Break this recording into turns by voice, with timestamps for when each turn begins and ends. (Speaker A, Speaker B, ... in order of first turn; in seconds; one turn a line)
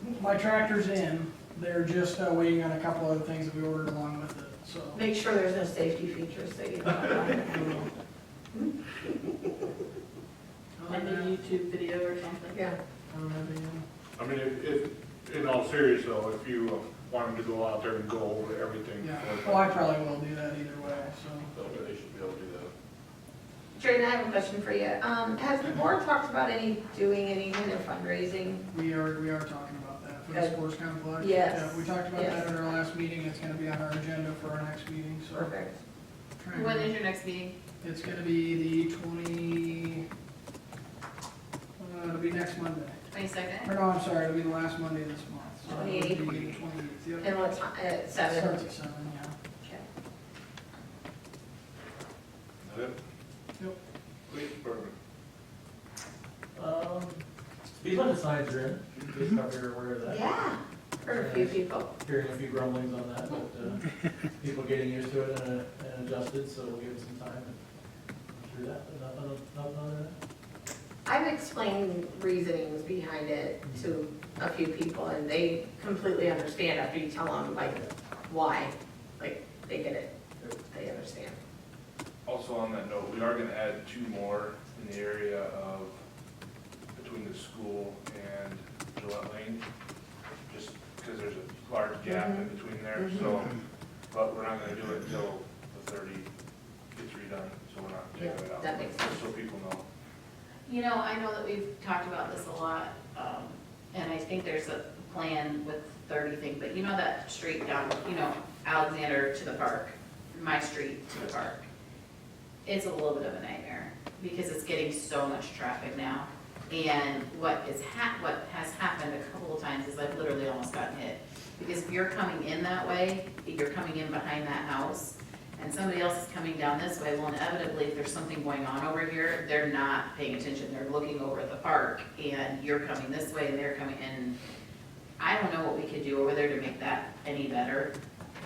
Speaker A: 0.1-5.0
Speaker B: 5.0-7.8
Speaker A: 7.5-7.9
Speaker A: 10.8-11.4
Speaker C: 10.9-12.6
Speaker A: 13.1-13.8
Speaker D: 14.2-19.8
Speaker A: 19.0-21.5
Speaker D: 21.5-22.7
Speaker B: 23.8-28.6
Speaker A: 28.7-35.5
Speaker B: 30.3-30.6
Speaker B: 31.2-32.4
Speaker B: 35.3-35.7
Speaker A: 36.4-36.9
Speaker C: 36.5-37.5
Speaker A: 37.8-40.0
Speaker A: 41.8-43.0
Speaker C: 43.1-43.7
Speaker A: 43.6-47.4
Speaker B: 45.7-46.4
Speaker B: 47.2-48.6
Speaker A: 48.2-49.3
Speaker D: 52.6-53.0
Speaker D: 54.3-54.9
Speaker E: 56.5-57.2
Speaker E: 57.8-60.2
Speaker B: 60.0-61.9
Speaker E: 61.1-63.8
Speaker E: 64.4-67.5
Speaker E: 68.3-70.2
Speaker B: 71.0-81.4
Speaker F: 82.3-86.0
Speaker F: 87.0-89.6
Speaker F: 90.5-93.6
Speaker F: 94.1-96.3
Speaker F: 97.0-99.8
Speaker B: 98.2-99.2
Speaker C: 100.7-111.7
Speaker C: 112.7-134.4
Speaker C: 135.2-137.9